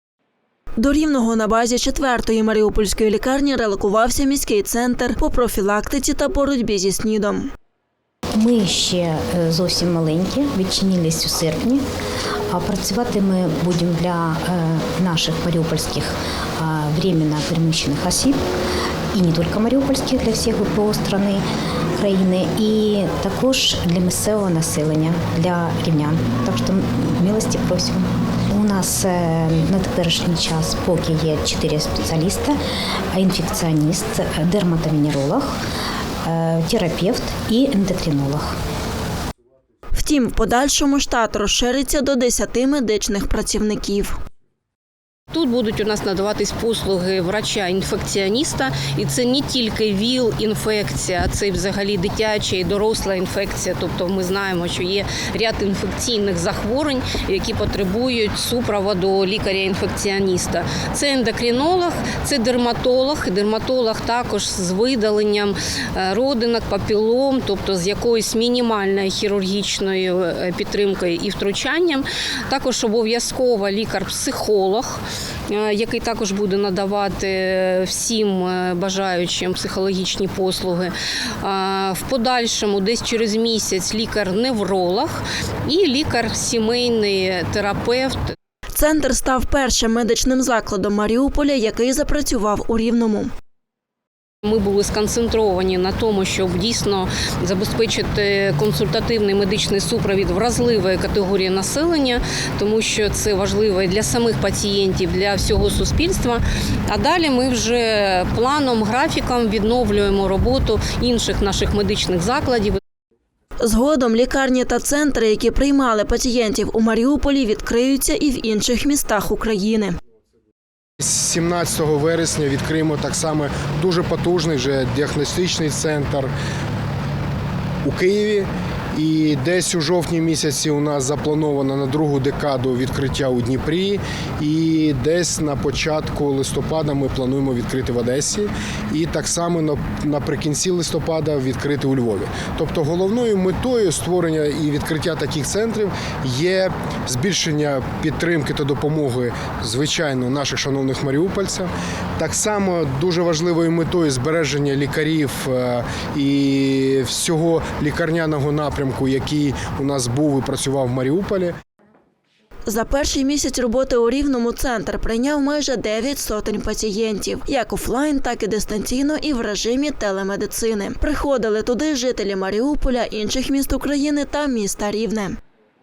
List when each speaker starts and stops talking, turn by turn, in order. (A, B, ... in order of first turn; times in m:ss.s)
0:00.8-0:07.5 A
0:08.4-0:11.8 B
0:12.5-0:18.4 B
0:19.1-0:21.4 B
0:22.0-0:32.6 B
0:33.1-0:35.5 B
0:36.2-0:38.5 B
0:39.9-0:44.2 A
0:45.3-1:28.3 C
1:28.7-1:33.3 A
1:34.4-1:52.8 C
1:53.6-2:00.0 A
2:01.0-2:06.3 D
2:07.8-2:41.5 D
2:42.6-2:55.4 A